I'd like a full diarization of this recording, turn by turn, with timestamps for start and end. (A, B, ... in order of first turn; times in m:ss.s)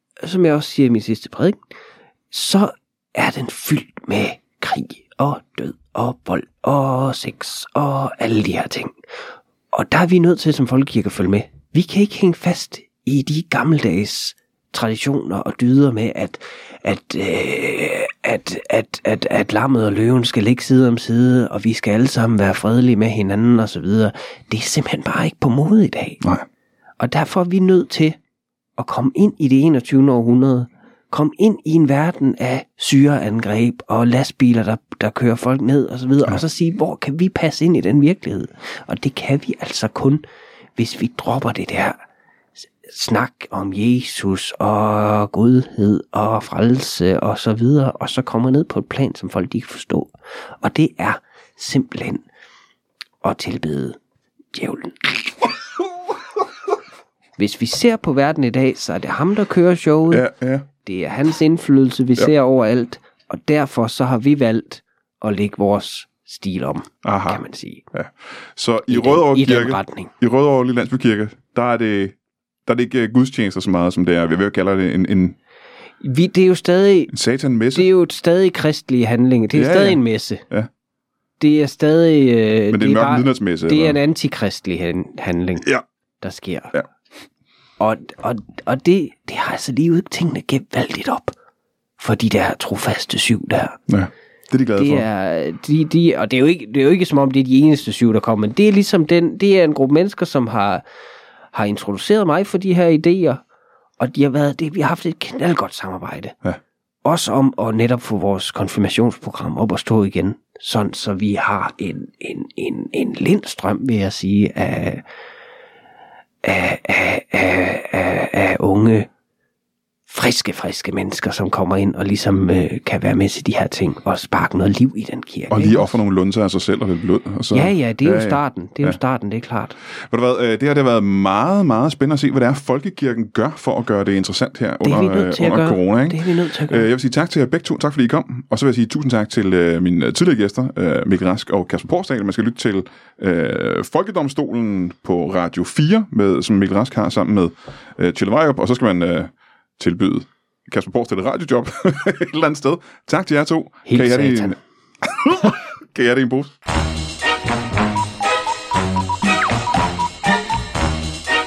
0:00.2-0:01.6 A
0:02.3-0:08.9 A
0:09.7-0:26.2 A
0:27.0-0:28.2 A
0:28.8-0:40.2 A
0:40.8-0:42.0 A
0:42.8-0:52.2 A
0:53.2-0:54.0 A
0:54.5-0:55.2 A
0:57.4-1:00.2 A
1:00.1-1:00.6 B
1:00.8-1:07.8 A
1:07.0-1:07.4 B
1:07.9-1:12.1 B
1:08.9-1:10.1 A
1:12.6-1:15.4 B
1:16.0-1:17.2 A
1:17.1-1:17.9 B
1:17.7-1:20.4 A
1:19.5-1:20.7 B
1:21.4-1:25.7 A
1:22.7-1:24.0 B
1:26.2-1:26.7 A
1:27.8-1:31.3 A
1:32.0-1:33.8 A
1:33.9-1:35.0 B
1:34.8-1:40.8 A
1:41.5-1:43.4 A
1:44.0-1:46.4 A
1:47.0-1:55.0 A
1:56.4-1:59.1 A
2:00.1-2:05.9 A
2:05.5-2:09.0 B
2:07.5-2:09.8 A
2:10.1-2:36.5 B
2:14.8-2:16.9 A
2:33.8-2:34.6 A